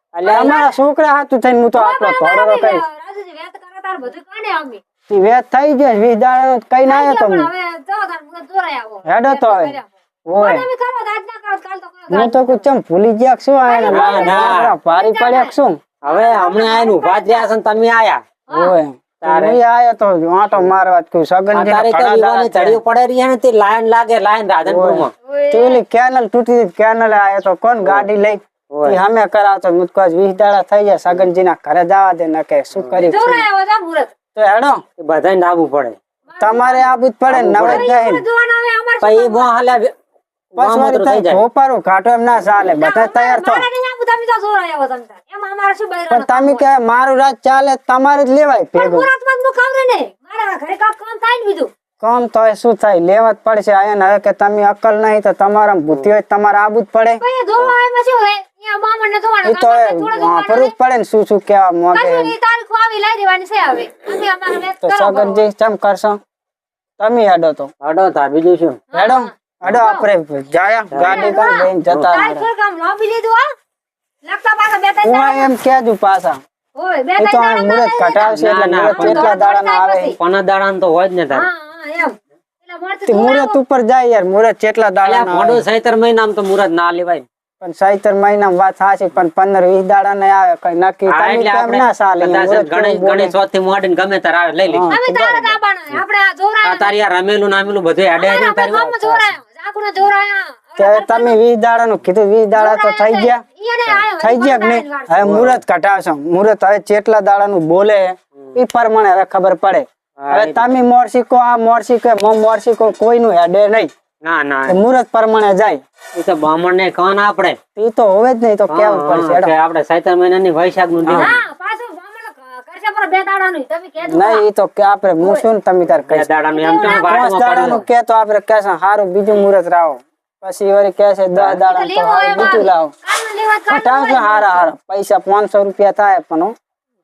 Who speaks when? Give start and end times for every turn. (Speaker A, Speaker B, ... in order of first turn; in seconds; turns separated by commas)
Speaker A: 0.1-0.6, Speaker B: 0.2-0.8, Speaker C: 0.3-2.8, Speaker B: 1.7-4.8, Speaker C: 5.1-7.5, Speaker B: 6.9-12.7, Speaker C: 9.1-9.8, Speaker C: 10.3-10.7, Speaker C: 12.1-15.8, Speaker B: 13.7-17.5, Speaker A: 13.9-14.7, Speaker A: 16.0-18.2, Speaker B: 18.5-18.8, Speaker C: 18.5-22.8, Speaker A: 19.2-19.6, Speaker A: 21.5-25.1, Speaker C: 24.7-33.5, Speaker B: 25.2-25.8, Speaker A: 28.7-29.0, Speaker A: 32.8-33.1, Speaker B: 33.0-34.1, Speaker C: 34.4-34.8, Speaker A: 35.0-36.0, Speaker B: 36.3-37.0, Speaker C: 36.4-38.2, Speaker A: 37.3-37.9, Speaker B: 37.6-39.5, Speaker A: 39.0-39.9, Speaker C: 40.5-43.7, Speaker A: 40.6-41.4, Speaker B: 42.8-46.6, Speaker C: 46.1-49.1, Speaker B: 48.8-51.7, Speaker C: 52.0-57.2, Speaker B: 57.2-60.7, Speaker C: 59.4-62.3, Speaker B: 61.9-65.5, Speaker C: 64.8-66.2, Speaker C: 67.0-67.7, Speaker A: 67.8-68.8, Speaker B: 68.9-70.1, Speaker C: 69.0-72.5, Speaker A: 70.9-71.4, Speaker B: 71.0-73.5, Speaker A: 71.9-72.1, Speaker B: 74.2-75.5, Speaker C: 75.0-76.4, Speaker B: 76.8-80.2, Speaker C: 77.2-80.1, Speaker A: 78.2-79.4, Speaker A: 80.2-81.5, Speaker B: 81.3-83.6, Speaker C: 83.1-85.6, Speaker A: 85.0-87.2, Speaker C: 87.6-93.3, Speaker A: 91.1-94.9, Speaker C: 94.7-95.6, Speaker B: 94.9-97.0, Speaker A: 96.6-99.4, Speaker B: 98.2-101.4, Speaker C: 100.8-103.4, Speaker B: 102.5-105.3, Speaker C: 104.2-113.9, Speaker A: 105.2-105.6, Speaker A: 110.2-110.7, Speaker A: 114.2-114.8, Speaker C: 114.7-115.8, Speaker A: 116.2-117.6, Speaker C: 117.8-119.5, Speaker A: 118.7-121.4, Speaker C: 121.1-121.3, Speaker B: 121.1-124.5, Speaker C: 124.1-132.9, Speaker A: 126.1-127.8, Speaker B: 126.5-127.6, Speaker A: 131.3-131.6, Speaker B: 131.6-134.7, Speaker C: 133.7-136.6